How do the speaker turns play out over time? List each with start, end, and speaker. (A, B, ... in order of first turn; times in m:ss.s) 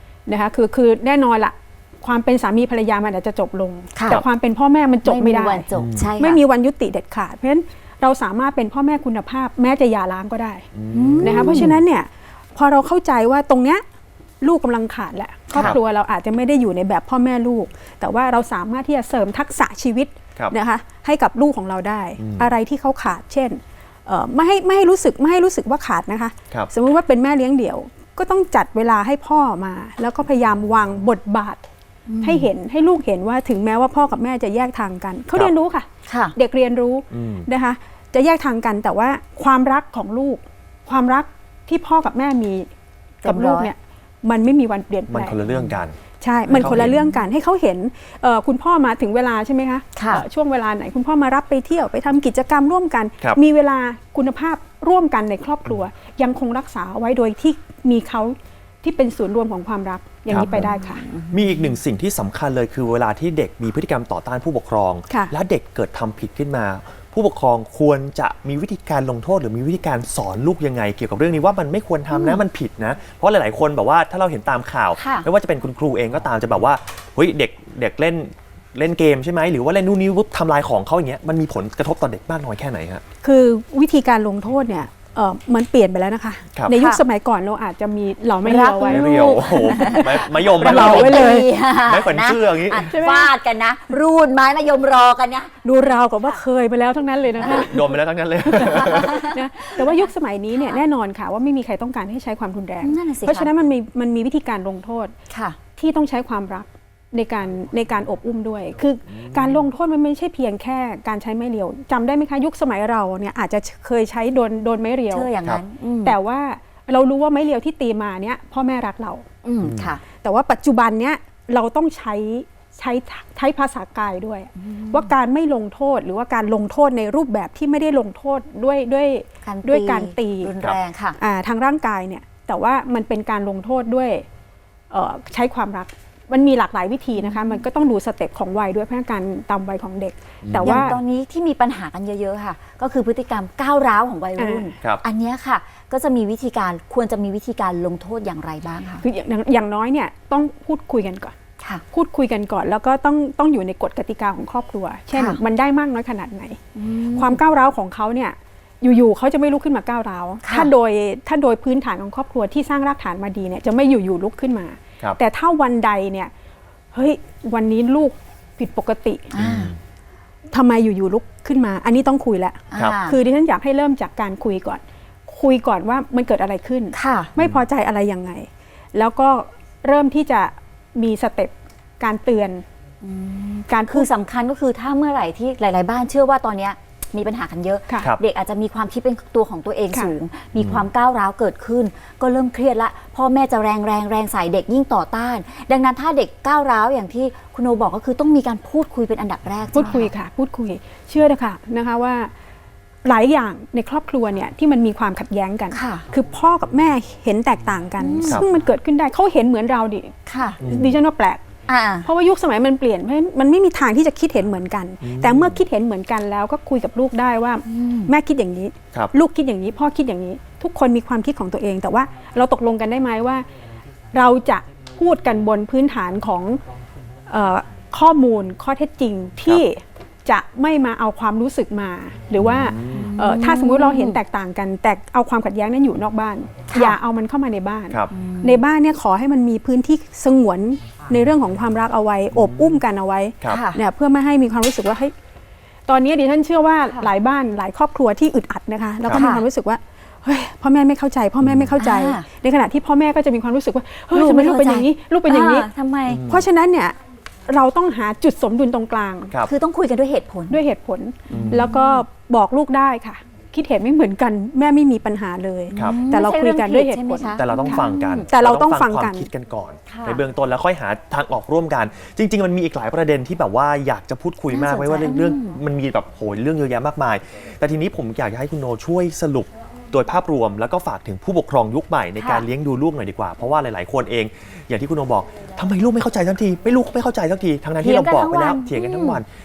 0:00.3-0:05.6 A
0:03.9-0:04.2 B
0:05.0-0:06.4 B
0:05.7-0:06.0 C
0:06.2-0:10.7 A
0:10.7-0:11.8 C
0:10.9-0:11.7 B
0:11.2-0:13.8 A
0:14.4-0:31.6 A
0:15.5-0:15.8 B
0:22.2-0:22.5 C
0:32.1-0:32.5 B
0:32.2-0:42.7 A
0:36.1-0:36.3 B
0:37.1-0:37.5 C
0:43.2-0:43.7 B
0:43.2-0:45.4 A
0:45.1-0:46.0 C
0:46.2-1:01.0 A
0:46.5-0:47.0 C
0:50.0-0:50.2 B
1:00.3-1:00.7 C
1:00.3-1:01.5 B
1:01.3-1:23.0 C
1:12.1-1:12.4 B
1:14.9-1:15.3 B
1:23.2-1:31.5 A
1:26.7-1:27.0 B
1:28.4-1:36.4 B
1:28.8-1:31.3 C
1:31.8-1:32.9 C
1:32.9-1:33.3 A
1:35.6-1:45.1 A
1:37.4-1:39.3 C
1:38.6-1:40.8 B
1:42.8-1:43.5 B
1:45.3-1:45.6 B
1:45.8-1:55.3 A
1:55.1-1:56.2 B
1:56.0-1:59.2 A
1:59.4-2:00.0 B
1:59.6-1:59.9 C
2:00.2-2:10.5 A
2:04.6-2:05.1 B
2:09.4-2:11.2 B
2:11.2-2:14.2 A
2:14.9-2:21.0 A
2:17.2-2:17.6 B
2:20.4-2:21.0 C
2:20.5-2:29.0 B
2:24.4-2:24.7 A
2:29.0-2:31.3 A
2:31.9-2:36.6 A
2:35.1-2:35.4 B
2:36.8-2:37.4 B
2:37.1-2:46.3 A
2:40.4-2:40.7 B
2:46.9-2:49.3 A
2:49.3-2:49.7 B
2:49.4-2:49.8 C
2:50.5-3:02.6 A
2:52.7-2:53.2 B
2:56.9-2:57.3 B
3:03.0-3:20.1 B
3:03.7-3:04.1 A
3:10.6-3:10.8 C
3:19.7-3:22.3 A
3:23.0-3:31.4 A
3:25.7-3:26.0 B
3:28.0-3:28.4 B
3:30.2-3:30.6 B
3:30.6-3:31.0 C
3:31.7-3:32.1 B
3:32.0-3:43.5 A
3:35.0-3:35.6 C
3:37.6-3:38.1 B
3:44.1-3:46.6 A
3:47.3-4:05.1 A
3:52.4-3:53.1 C
3:52.9-3:54.2 B
3:56.7-3:57.0 B
3:58.1-3:58.6 B
4:03.4-4:03.8 B
4:05.9-4:15.7 A
4:09.1-4:09.4 B
4:11.4-4:11.7 C
4:11.8-4:12.2 B
4:14.1-4:16.2 B
4:16.1-4:16.5 C
4:16.3-4:19.4 A
4:19.4-4:20.6 B
4:20.5-4:29.3 A
4:21.3-4:22.0 B
4:21.3-4:21.7 C
4:25.7-4:28.3 B
4:25.7-4:26.0 C
4:27.3-4:49.3 C
4:29.9-4:30.2 B
4:34.5-4:35.6 B
4:42.2-4:42.5 B
4:47.8-4:49.2 B